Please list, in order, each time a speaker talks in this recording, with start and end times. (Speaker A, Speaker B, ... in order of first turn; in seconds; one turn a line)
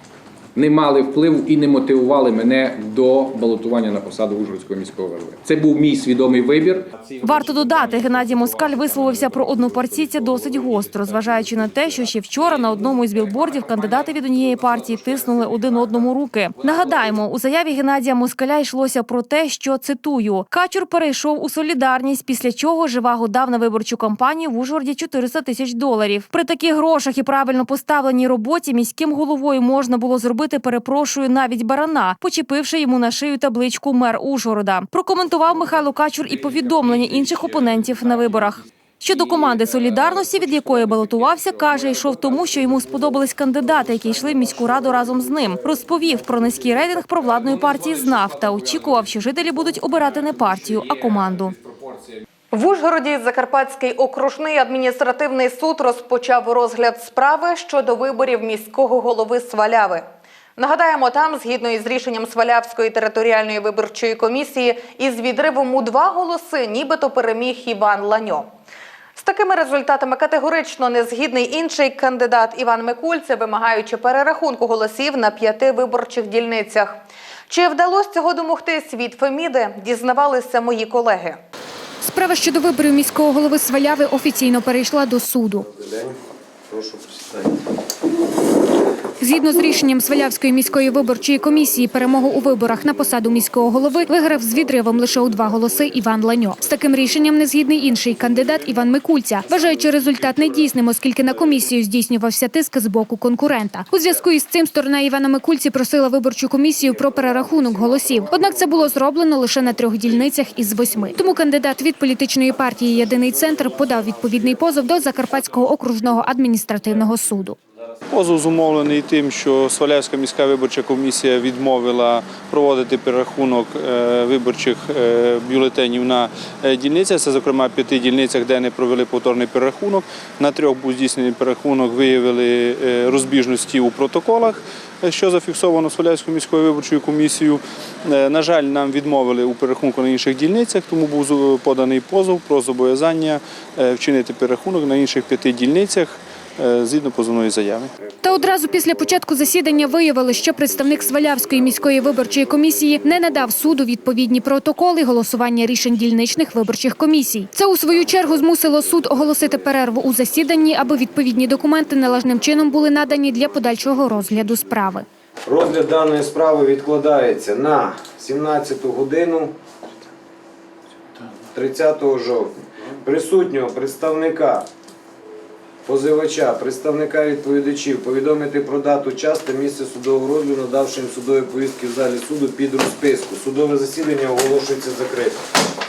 Speaker A: 0.5-8.6
Speaker B: 7.2-51.5
Speaker A: 12.3-15.8
Speaker A: 16.6-17.1
Speaker A: 36.3-37.8
Speaker A: 39.1-39.8
Speaker A: 40.8-42.0
Speaker A: 47.4-48.8
Speaker A: 50.5-52.2
Speaker C: 52.5-60.0
Speaker C: 60.6-68.5
Speaker C: 69.2-77.0
Speaker C: 77.5-81.4
Speaker D: 82.0-85.7
Speaker E: 85.7-86.2
Speaker E: 86.7-87.5
Speaker D: 89.2-117.6
Speaker F: 118.1-147.9
Speaker D: 148.2-165.0
Speaker E: 165.4-169.5
Speaker E: 171.5-174.7
Speaker E: 175.8-185.4